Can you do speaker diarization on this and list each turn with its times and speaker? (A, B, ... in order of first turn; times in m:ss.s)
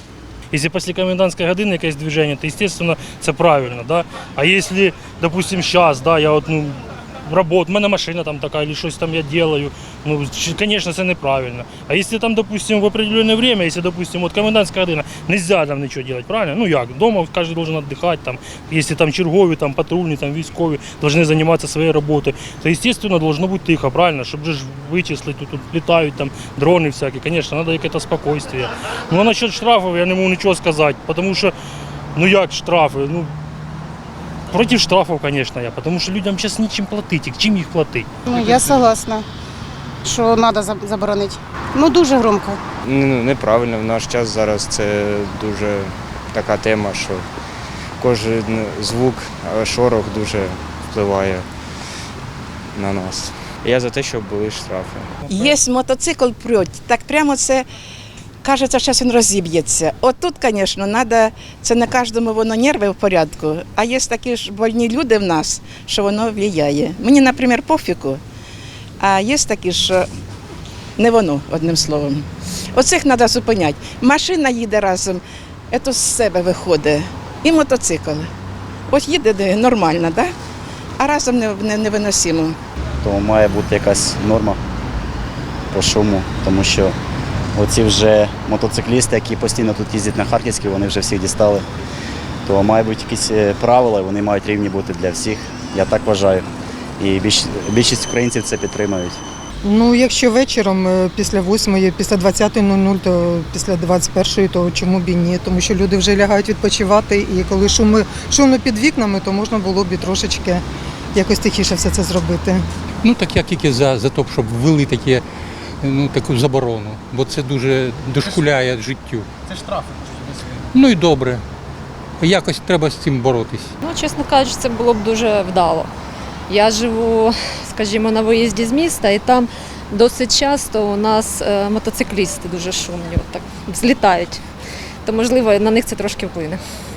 0:00.5-0:31.5 A
0:32.2-0:33.3 A
0:34.5-0:38.8 A
0:38.3-0:39.2 B
0:40.0-0:42.6 B
0:42.8-0:47.2 C
0:48.0-0:51.5 C
0:52.7-0:55.1 C
0:55.3-0:57.7 D
0:58.4-1:08.2 D
1:09.0-1:10.1 D
1:11.0-1:18.3 D
1:18.9-1:20.3 D
1:21.0-1:22.6 D
1:23.0-1:24.6 E
1:25.7-1:27.0 E
1:27.6-1:31.7 E
1:32.5-1:36.5 E
1:37.0-1:39.2 E
1:39.6-1:52.6 F
1:53.0-1:55.2 G
1:55.8-1:59.6 G
2:00.7-2:01.4 G
2:02.2-2:03.7 G
2:03.8-2:05.9 H
2:06.5-2:14.4 H
2:15.0-2:16.6 H